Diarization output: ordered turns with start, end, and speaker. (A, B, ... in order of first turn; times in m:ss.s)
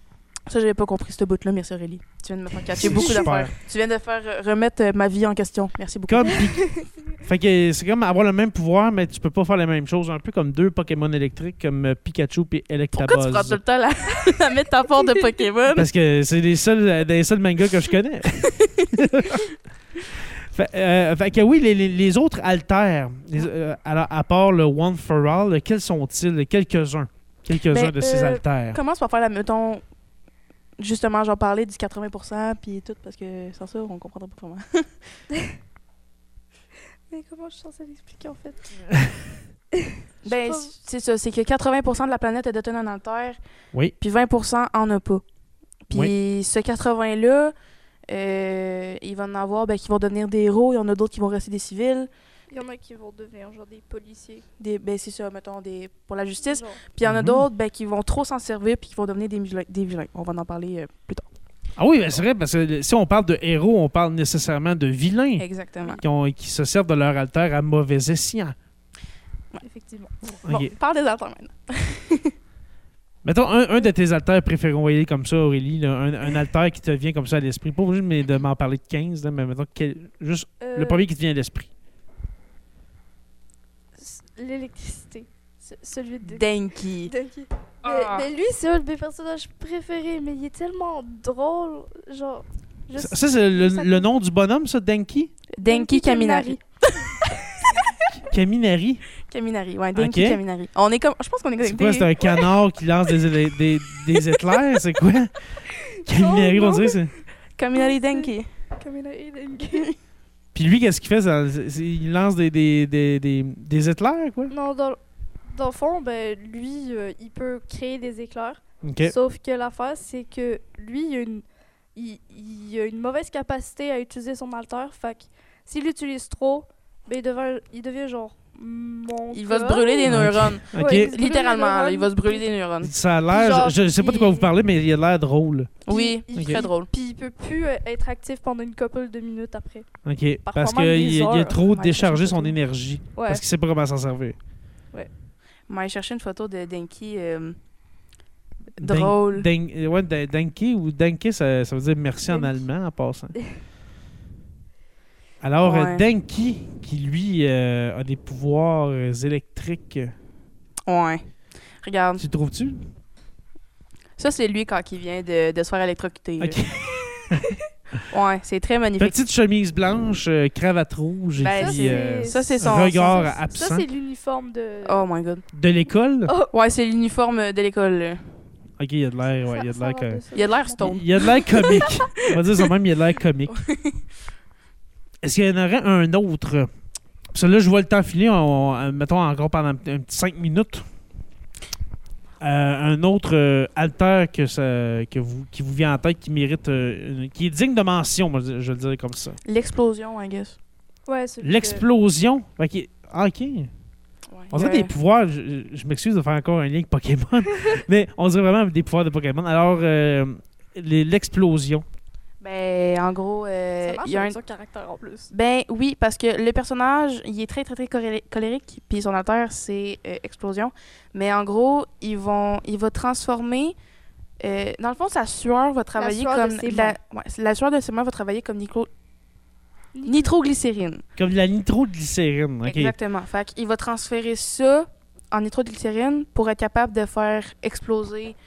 0:00.5-0:06.5 A
0:02.8-0:03.5 B
0:02.8-0:03.3 C
0:06.1-0:06.6 B
0:07.2-0:13.6 B
0:12.9-0:15.9 A
0:15.7-0:19.4 B
0:18.4-0:19.5 A
0:20.2-0:28.8 B
0:27.7-0:29.8 A
0:30.8-0:34.9 A
0:37.1-0:38.7 C
0:39.7-0:40.7 C
0:40.2-0:43.4 A
0:44.0-0:45.2 A
0:45.9-0:47.5 A
0:48.1-0:52.1 A
0:52.5-0:54.4 C
0:54.6-1:01.3 A
0:56.4-0:56.8 C
0:57.0-0:57.4 B
1:01.8-1:05.4 B
1:05.4-1:06.0 A
1:06.0-1:08.6 B
1:09.6-1:10.1 C
1:10.4-1:10.7 B
1:10.5-1:12.3 A
1:13.2-1:21.7 B
1:20.6-1:21.0 C
1:24.0-1:34.1 C
1:26.2-1:27.1 A
1:27.8-1:28.3 A
1:32.9-1:35.3 B
1:35.5-1:37.8 A
1:35.6-1:37.8 C
1:38.2-1:39.0 B
1:39.3-1:42.4 A
1:39.9-1:40.4 B
1:41.6-1:45.3 B
1:46.0-1:47.1 C
1:46.0-1:47.1 B
1:47.6-1:48.5 A
1:47.7-1:49.9 C
1:50.5-1:54.5 B
1:54.5-1:55.0 C
1:55.5-2:12.5 C
1:58.8-1:59.2 B
2:09.3-2:12.9 A
2:10.1-2:11.1 B
2:12.8-2:15.7 B
2:13.3-2:14.5 C
2:15.8-2:16.9 A
2:15.9-2:19.9 C
2:16.3-2:16.6 B
2:20.0-2:24.4 B
2:20.4-2:21.6 C
2:21.6-2:22.5 A
2:23.2-2:23.4 C
2:25.7-2:27.6 A
2:28.8-2:29.5 A
2:28.8-2:33.4 B
2:35.4-2:40.1 B
2:35.6-2:36.0 A
2:40.9-2:41.2 A
2:41.8-2:42.2 A
2:42.2-2:42.8 B
2:44.2-2:46.6 A
2:46.4-2:47.6 B
2:47.0-2:47.5 C
2:48.1-2:49.2 A
2:49.0-2:53.8 B
2:51.4-2:53.2 A
2:51.4-2:55.0 C
2:54.8-2:55.4 A
2:55.5-2:56.3 B
2:56.3-2:56.5 C
2:56.5-2:58.2 A
2:58.8-3:00.2 B
2:59.4-3:02.0 C
3:00.3-3:02.3 A
3:00.8-3:03.5 B
3:03.5-3:04.0 A
3:05.2-3:06.7 B
3:07.3-3:10.8 B
3:12.4-3:19.4 B
3:19.4-3:20.6 A
3:21.1-3:21.8 C
3:21.4-3:23.7 B
3:24.3-3:24.9 A
3:24.5-3:31.8 B
3:32.4-3:34.4 A
3:33.8-3:35.3 C
3:35.3-3:43.7 A
3:44.4-3:48.9 A
3:46.0-3:47.0 C
3:49.9-3:50.3 C
3:50.0-3:51.0 A
3:51.2-3:52.9 B
3:52.6-3:58.4 A